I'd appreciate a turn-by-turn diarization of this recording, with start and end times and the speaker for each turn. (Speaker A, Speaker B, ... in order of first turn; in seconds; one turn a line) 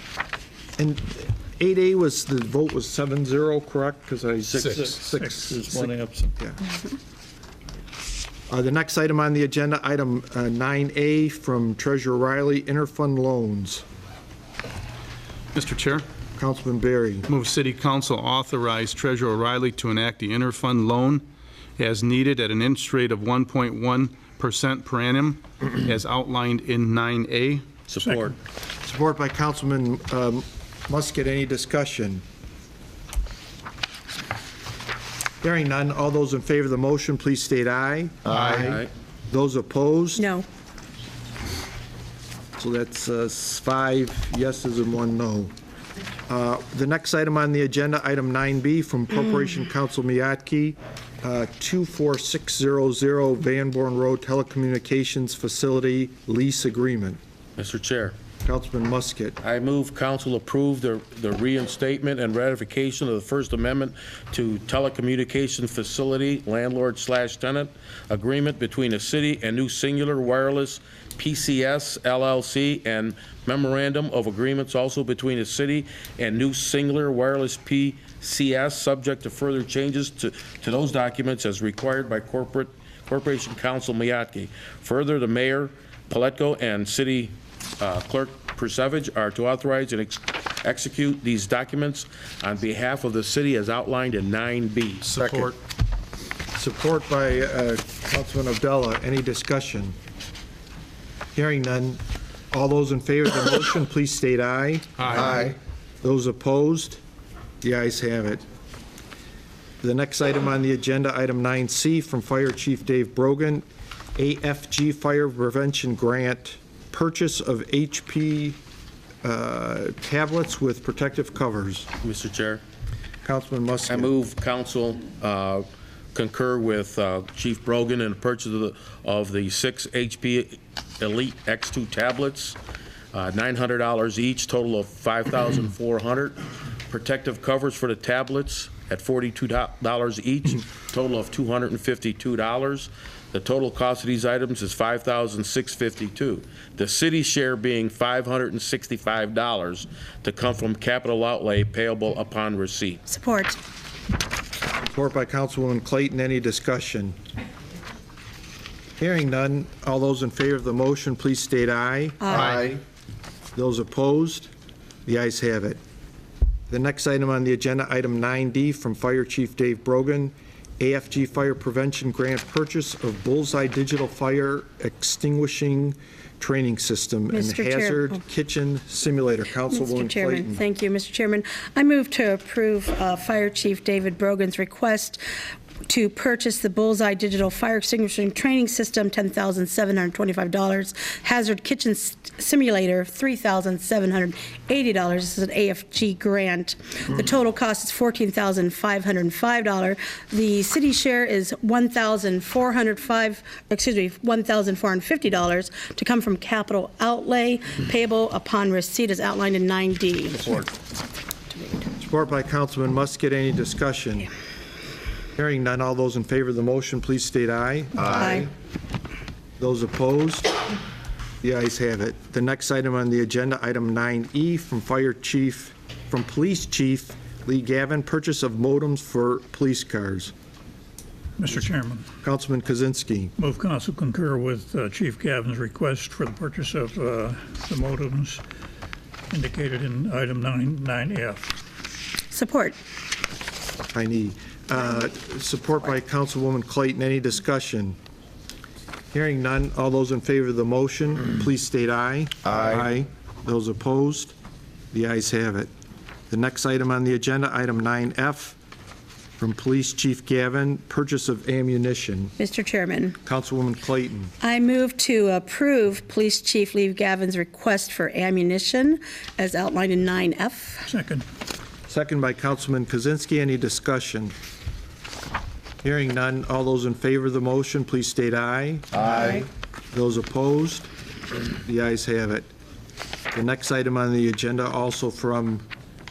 Speaker A: 0.8-6.6
Speaker B: 4.5-5.0
Speaker C: 5.0-6.3
Speaker A: 8.5-13.8
Speaker B: 15.6-16.1
Speaker A: 16.4-17.3
Speaker B: 17.3-21.2
Speaker B: 21.8-27.6
Speaker D: 27.9-28.3
Speaker C: 28.1-28.3
Speaker A: 28.8-32.2
Speaker A: 35.4-40.3
Speaker D: 38.6-38.9
Speaker E: 40.2-40.5
Speaker A: 42.6-45.5
Speaker A: 46.3-57.2
Speaker D: 57.6-58.2
Speaker A: 58.4-59.4
Speaker D: 59.4-95.1
Speaker B: 95.0-95.5
Speaker A: 95.2-95.5
Speaker A: 96.5-100.0
Speaker A: 101.3-102.0
Speaker A: 102.5-107.0
Speaker B: 105.0-105.4
Speaker A: 107.6-108.4
Speaker A: 109.8-113.7
Speaker A: 114.2-118.6
Speaker A: 119.2-121.9
Speaker D: 122.0-122.6
Speaker A: 123.2-124.1
Speaker D: 123.9-132.6
Speaker D: 133.1-153.0
Speaker E: 153.1-153.6
Speaker A: 154.8-157.2
Speaker A: 159.0-162.8
Speaker E: 162.2-162.5
Speaker A: 163.6-164.5
Speaker A: 165.1-165.8
Speaker A: 166.7-180.6
Speaker E: 177.3-178.2
Speaker E: 179.6-185.2
Speaker E: 185.8-210.8
Speaker E: 211.5-211.9
Speaker A: 212.0-214.3
Speaker A: 215.4-218.5
Speaker E: 218.1-218.5
Speaker A: 219.6-220.5
Speaker A: 221.4-230.3
Speaker C: 231.4-232.1
Speaker A: 232.2-233.3
Speaker C: 233.4-238.4
Speaker C: 239.3-241.5
Speaker E: 242.3-242.8
Speaker A: 243.9-248.0
Speaker A: 249.1-254.3
Speaker A: 254.9-255.7
Speaker A: 256.3-258.6
Speaker A: 259.4-262.3
Speaker E: 262.4-263.2
Speaker A: 263.3-264.3
Speaker E: 264.4-270.9
Speaker C: 270.9-271.2
Speaker A: 271.9-274.3
Speaker A: 275.8-282.5
Speaker E: 279.1-279.4
Speaker A: 283.3-285.6